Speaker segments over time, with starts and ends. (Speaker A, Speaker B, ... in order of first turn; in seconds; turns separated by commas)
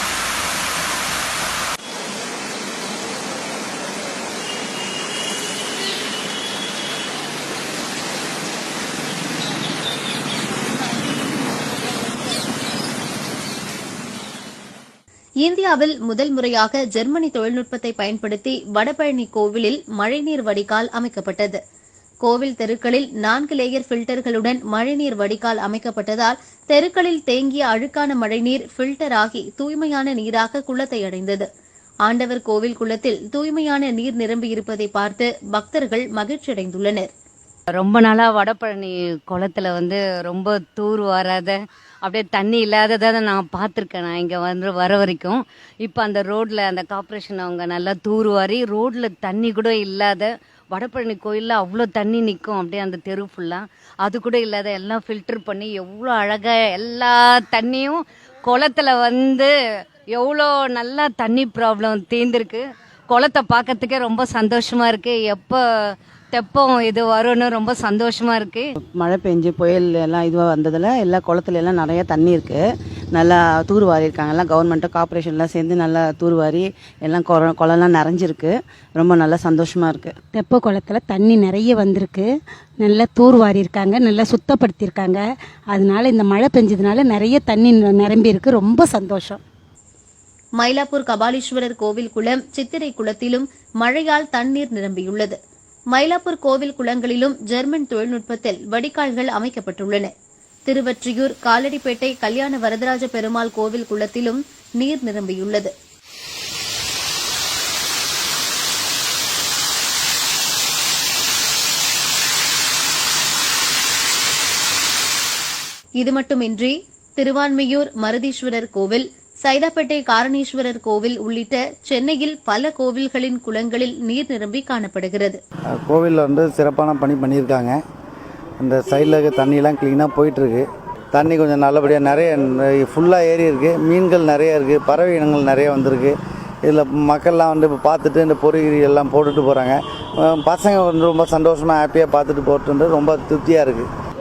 Speaker A: 15.4-21.6, Speaker A: 22.2-31.5, Speaker A: 32.0-37.1, Speaker B: 37.8-59.5, Speaker B: 60.1-65.6, Speaker B: 66.3-68.7, Speaker C: 68.8-72.6, Speaker C: 73.1-80.1, Speaker D: 80.3-82.3, Speaker D: 82.8-85.2, Speaker D: 85.7-89.4, Speaker A: 90.6-95.4, Speaker A: 95.9-100.1, Speaker A: 100.7-105.7, Speaker A: 116.0-125.4, Speaker E: 125.7-127.8, Speaker E: 128.6-143.9